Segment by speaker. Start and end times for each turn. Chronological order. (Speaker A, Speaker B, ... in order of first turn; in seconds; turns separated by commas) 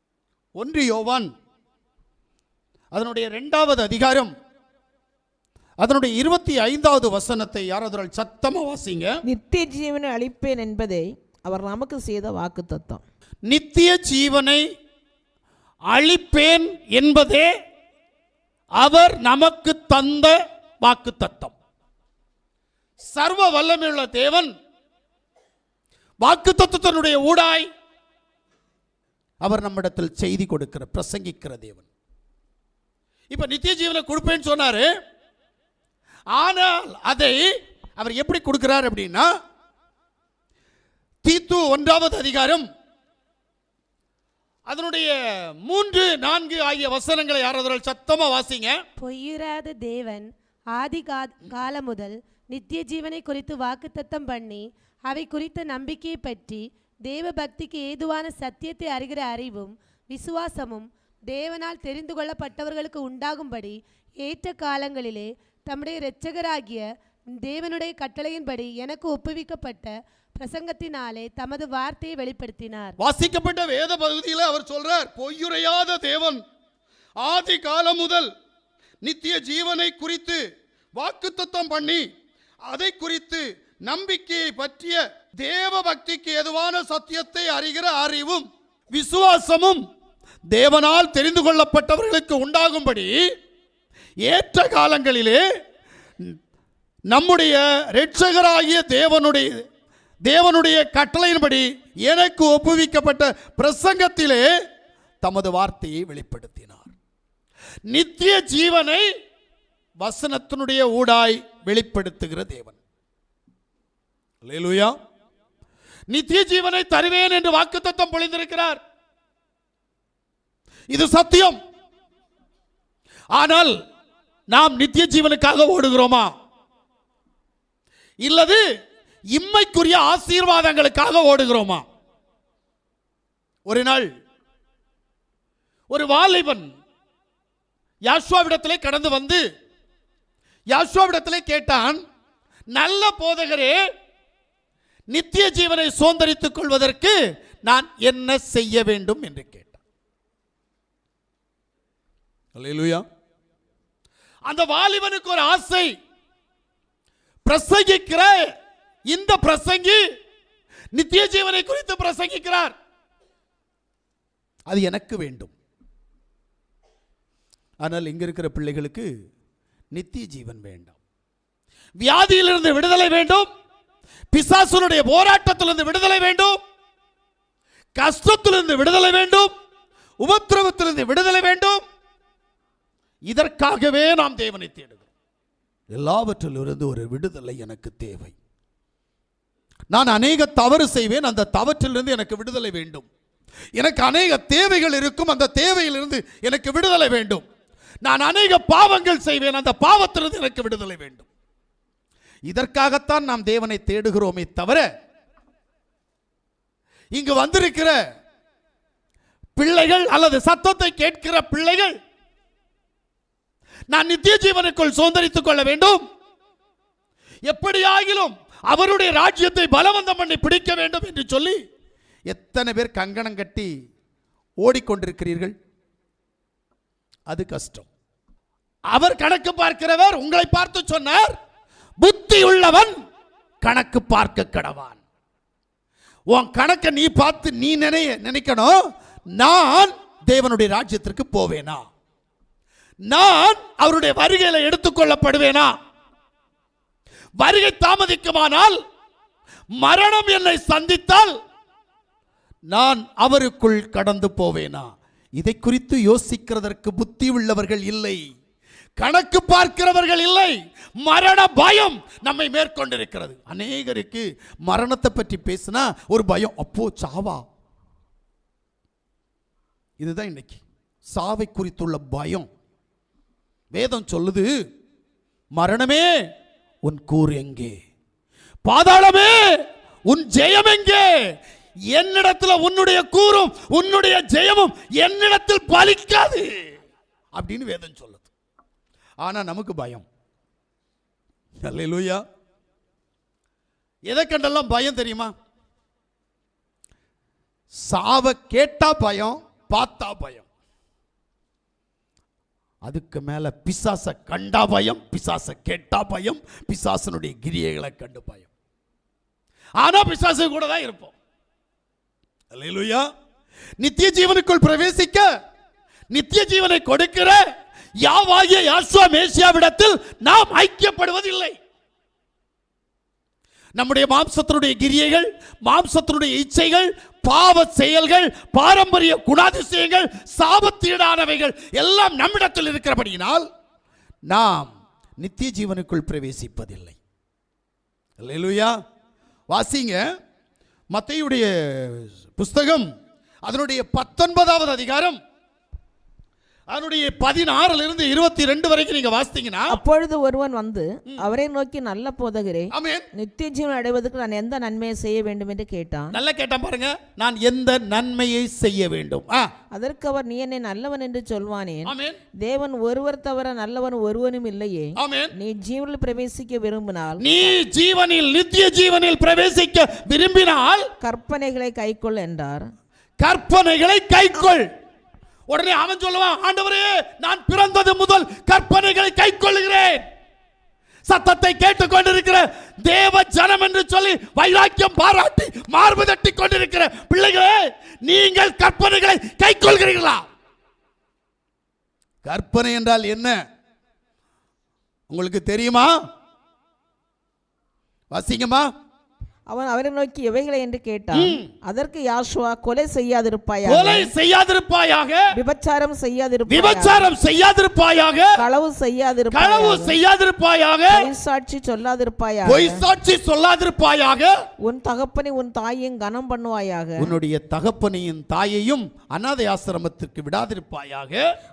Speaker A: 0.6-1.3, Speaker A: 2.9-4.3, Speaker A: 5.8-9.2, Speaker B: 9.3-13.0, Speaker A: 13.5-14.6, Speaker A: 15.9-17.5, Speaker A: 18.8-21.5, Speaker A: 23.0-24.5, Speaker A: 26.2-27.7, Speaker A: 29.4-31.9, Speaker A: 33.3-34.9, Speaker A: 36.3-39.3, Speaker A: 41.2-42.7, Speaker A: 44.7-48.8, Speaker C: 49.0-66.8, Speaker C: 67.4-73.0, Speaker A: 73.0-76.4, Speaker A: 77.2-78.3, Speaker A: 79.0-80.4, Speaker A: 81.0-82.0, Speaker A: 82.7-89.8, Speaker A: 90.5-93.2, Speaker A: 94.2-95.4, Speaker A: 97.1-99.6, Speaker A: 100.2-104.5, Speaker A: 105.2-106.9, Speaker A: 107.9-109.1, Speaker A: 110.0-112.8, Speaker A: 114.4-115.0, Speaker A: 116.1-118.8, Speaker A: 120.9-121.6, Speaker A: 123.3-123.8, Speaker A: 124.5-126.3, Speaker A: 128.2-128.6, Speaker A: 129.3-131.9, Speaker A: 133.7-134.1, Speaker A: 135.9-136.7, Speaker A: 138.1-139.4, Speaker A: 140.7-142.0, Speaker A: 142.7-143.8, Speaker A: 145.1-149.8, Speaker A: 152.6-153.1, Speaker A: 154.5-155.9, Speaker A: 157.5-158.5, Speaker A: 159.1-160.0, Speaker A: 160.9-162.8, Speaker A: 164.7-165.5, Speaker A: 167.8-169.1, Speaker A: 169.9-170.9, Speaker A: 172.0-173.5, Speaker A: 174.3-176.6, Speaker A: 178.0-179.5, Speaker A: 180.2-181.8, Speaker A: 183.2-185.1, Speaker A: 185.9-188.3, Speaker A: 189.9-193.1, Speaker A: 193.8-197.5, Speaker A: 198.0-201.3, Speaker A: 202.5-204.9, Speaker A: 207.1-208.0, Speaker A: 209.6-211.9, Speaker A: 213.9-216.0, Speaker A: 217.4-221.6, Speaker A: 222.3-223.7, Speaker A: 224.6-225.6, Speaker A: 227.3-227.9, Speaker A: 228.9-231.4, Speaker A: 232.0-233.0, Speaker A: 233.6-235.0, Speaker A: 236.3-238.8, Speaker A: 239.4-241.8, Speaker A: 243.1-245.7, Speaker A: 247.4-248.8, Speaker A: 249.8-251.3, Speaker A: 252.7-258.2, Speaker A: 259.0-267.4, Speaker A: 270.0-272.5, Speaker A: 273.7-274.5, Speaker A: 275.6-276.1, Speaker A: 276.8-277.7, Speaker A: 278.7-279.4, Speaker A: 280.1-281.1, Speaker A: 281.9-286.5, Speaker A: 287.4-288.3, Speaker A: 289.2-290.1, Speaker A: 291.6-292.2, Speaker A: 294.1-295.3, Speaker A: 297.9-300.5, Speaker A: 302.9-308.5, Speaker A: 309.8-311.1, Speaker A: 312.5-313.1, Speaker A: 313.8-315.3, Speaker A: 316.1-317.4, Speaker A: 318.0-321.6, Speaker A: 323.8-333.5, Speaker A: 334.3-337.0, Speaker A: 338.2-338.7, Speaker A: 339.5-340.1, Speaker A: 340.9-342.9, Speaker A: 343.4-345.2, Speaker A: 346.7-349.8, Speaker B: 349.7-356.2, Speaker A: 352.7-353.1, Speaker A: 356.1-359.5, Speaker B: 359.7-367.6, Speaker A: 361.9-362.2, Speaker A: 365.0-365.3, Speaker A: 367.2-370.9, Speaker B: 371.0-372.6, Speaker A: 373.2-374.7, Speaker A: 375.5-380.0, Speaker A: 381.1-390.3, Speaker A: 392.2-393.4, Speaker A: 395.1-396.0, Speaker A: 398.1-398.7, Speaker B: 399.5-404.1, Speaker A: 401.1-401.5, Speaker A: 403.7-405.3, Speaker B: 405.3-407.1, Speaker A: 406.5-408.4, Speaker B: 408.4-410.0, Speaker A: 409.3-411.1, Speaker B: 410.9-412.8, Speaker A: 412.4-414.4, Speaker B: 414.6-417.1, Speaker A: 417.0-421.2